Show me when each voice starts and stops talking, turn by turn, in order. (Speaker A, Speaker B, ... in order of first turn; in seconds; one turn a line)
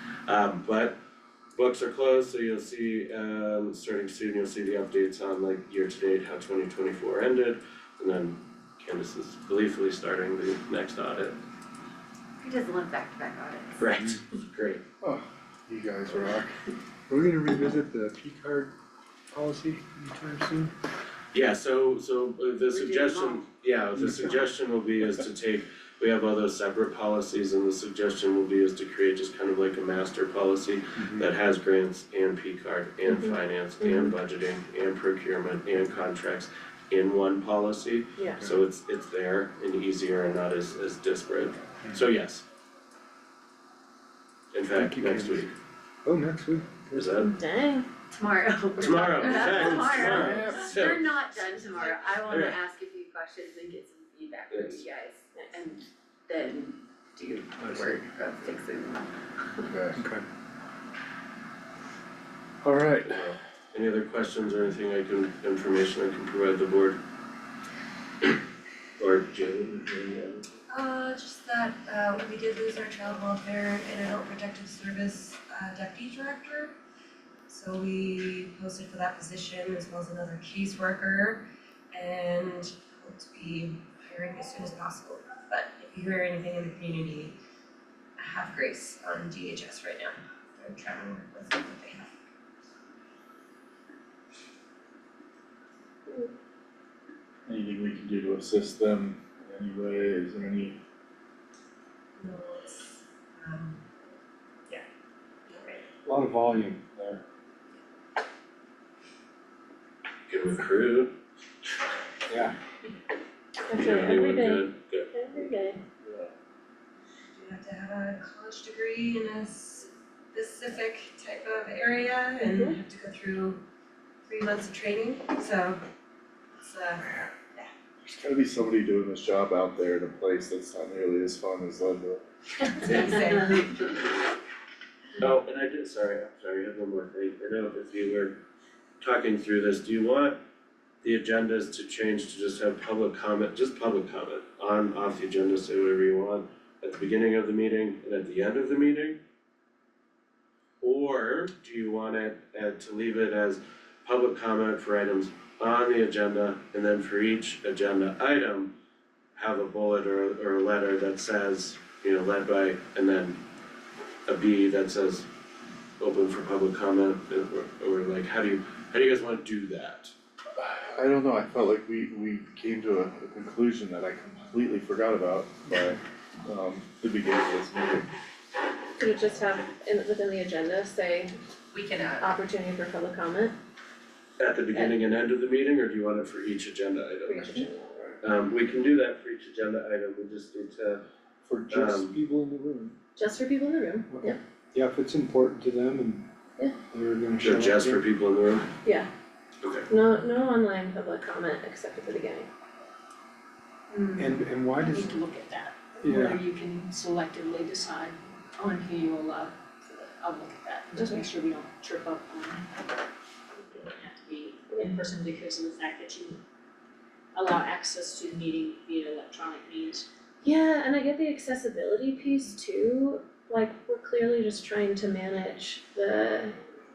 Speaker A: 0.3-0.9
Speaker A: 1.5-11.4
Speaker B: 12.4-13.8
Speaker A: 13.8-14.8
Speaker C: 13.9-14.2
Speaker D: 15.0-16.6
Speaker C: 17.1-18.7
Speaker C: 19.3-20.7
Speaker A: 21.3-42.4
Speaker B: 22.7-23.4
Speaker C: 24.0-24.3
Speaker C: 30.9-31.3
Speaker E: 33.0-34.2
Speaker E: 38.2-38.5
Speaker A: 44.5-45.5
Speaker C: 44.7-45.5
Speaker C: 46.0-47.2
Speaker A: 46.9-47.3
Speaker E: 47.2-47.9
Speaker B: 48.1-59.1
Speaker A: 48.8-52.6
Speaker D: 49.4-50.8
Speaker A: 54.5-54.8
Speaker E: 55.3-55.6
Speaker D: 59.6-60.0
Speaker C: 59.9-60.2
Speaker D: 62.6-63.2
Speaker A: 63.1-67.0
Speaker A: 69.0-70.4
Speaker F: 70.7-76.8
Speaker F: 77.5-87.4
Speaker F: 88.2-92.1
Speaker D: 97.5-100.8
Speaker F: 102.2-103.8
Speaker F: 105.5-105.9
Speaker C: 106.0-107.2
Speaker A: 110.3-111.1
Speaker C: 112.3-112.5
Speaker E: 113.6-115.8
Speaker A: 113.7-115.1
Speaker D: 116.0-116.3
Speaker F: 117.3-123.6
Speaker E: 122.5-122.8
Speaker F: 124.2-125.8
Speaker F: 126.6-127.7
Speaker D: 128.0-132.2
Speaker F: 132.8-133.9
Speaker A: 132.8-133.2
Speaker A: 135.2-138.4
Speaker A: 139.0-140.4
Speaker A: 141.0-149.2
Speaker A: 150.8-158.7
Speaker A: 159.3-163.4
Speaker A: 164.3-165.2
Speaker A: 166.0-170.1
Speaker D: 170.6-178.1
Speaker E: 179.0-181.3
Speaker F: 181.8-182.2
Speaker E: 182.2-183.5
Speaker A: 184.4-187.7
Speaker E: 187.3-188.2
Speaker A: 188.2-191.0
Speaker C: 191.4-192.9
Speaker A: 191.7-192.1
Speaker E: 193.2-194.4
Speaker C: 194.1-196.3
Speaker C: 196.9-198.0
Speaker A: 197.4-198.7
Speaker E: 198.8-199.1
Speaker A: 199.6-199.9
Speaker E: 199.9-202.5
Speaker C: 204.2-205.2
Speaker G: 204.8-212.7
Speaker C: 206.0-206.4
Speaker E: 210.9-211.3
Speaker G: 213.8-216.4
Speaker E: 214.7-215.0
Speaker G: 217.3-220.1
Speaker E: 220.4-226.5